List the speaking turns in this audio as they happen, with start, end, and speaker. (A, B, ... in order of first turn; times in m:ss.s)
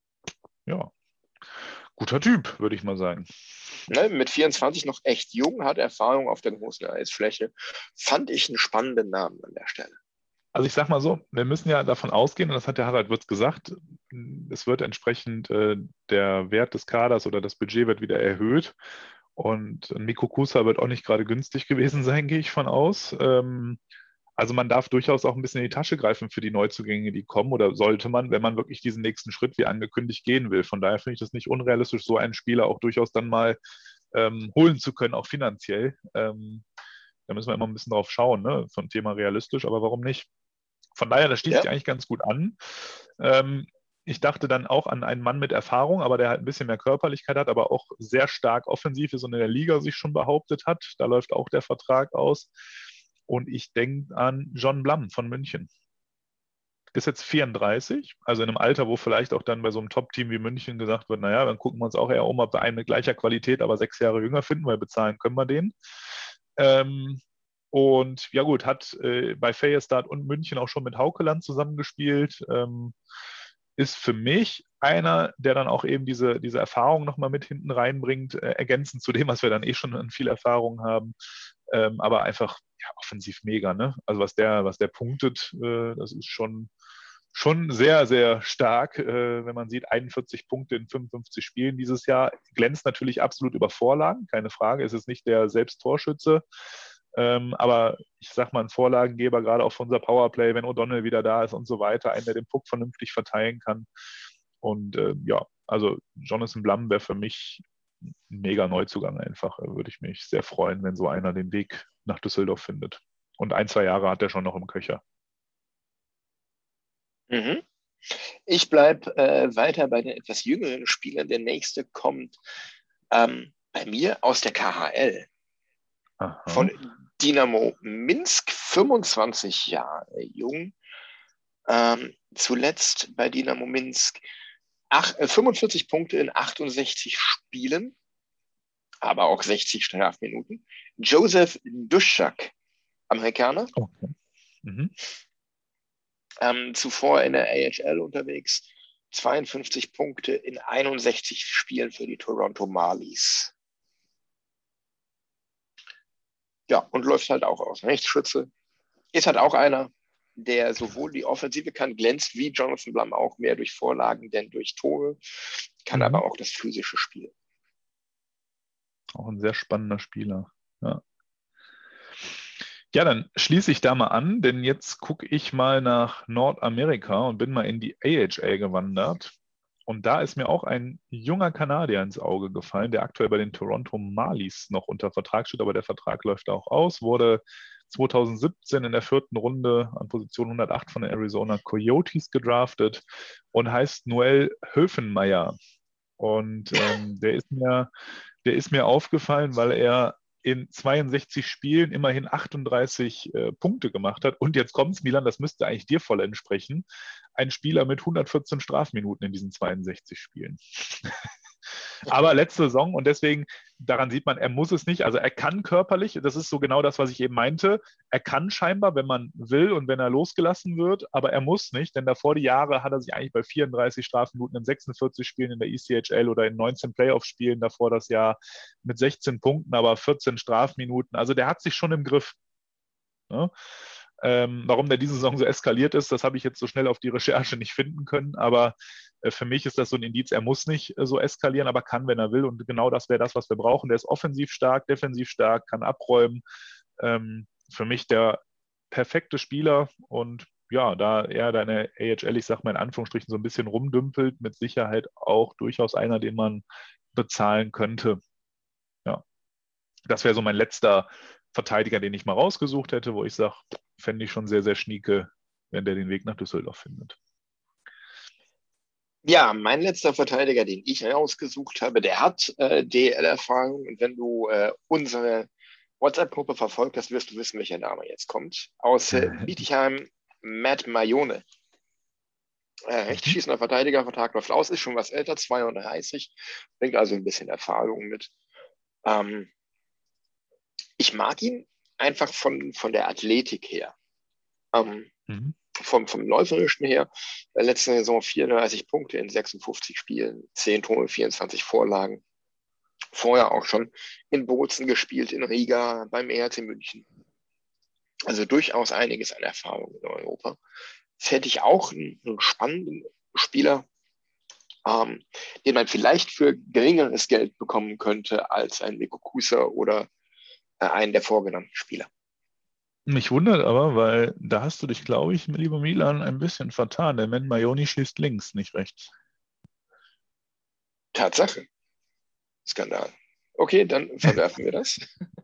0:00.7-0:00.9 A
0:02.0-0:03.3 A
0:03.9-0:10.0 B
0:10.5-0:18.8 A
0:19.4-0:23.8 A
0:24.4-0:33.6 A
0:34.1-0:36.6 A
0:37.3-0:40.3 A
0:41.0-0:52.5 A
0:53.3-0:55.7 A
0:56.9-1:05.8 A
1:06.6-1:13.0 A
1:13.8-1:21.2 A
1:21.7-1:26.7 A
1:27.3-1:36.4 A
1:37.1-1:43.9 A
1:44.6-1:55.0 A
1:57.3-2:02.4 B
2:03.1-2:05.3 B
2:06.2-2:06.7 A
2:06.5-2:10.8 B
2:11.7-2:14.2 B
2:14.9-2:17.9 B
2:19.0-2:22.5 B
2:23.1-2:23.7 B
2:23.8-2:24.1 A
2:24.6-2:24.9 A
2:26.4-2:33.5 B
2:36.7-2:38.5 B
2:39.1-2:47.3 B
2:45.9-2:46.2 A
2:49.2-2:51.0 A
2:52.9-2:59.3 A
2:59.9-3:15.6 A
3:16.2-3:17.9 A
3:18.4-3:31.2 A
3:32.0-3:52.4 A
3:54.2-4:06.4 A
4:07.0-4:18.2 A
4:20.1-4:27.2 A
4:29.2-4:35.5 B
4:36.0-4:41.4 B
4:42.9-4:48.3 B
4:43.1-4:43.4 A
4:49.0-4:49.5 B
4:51.0-4:53.9 B
4:54.7-4:55.1 B
4:55.3-4:55.6 A
4:55.8-5:02.2 B
5:03.1-5:07.0 B
5:08.3-5:10.6 B
5:11.2-5:13.9 B
5:14.8-5:20.1 B
5:20.8-5:22.1 B
5:23.1-5:29.1 A
5:31.1-5:31.7 B
5:32.7-5:35.1 B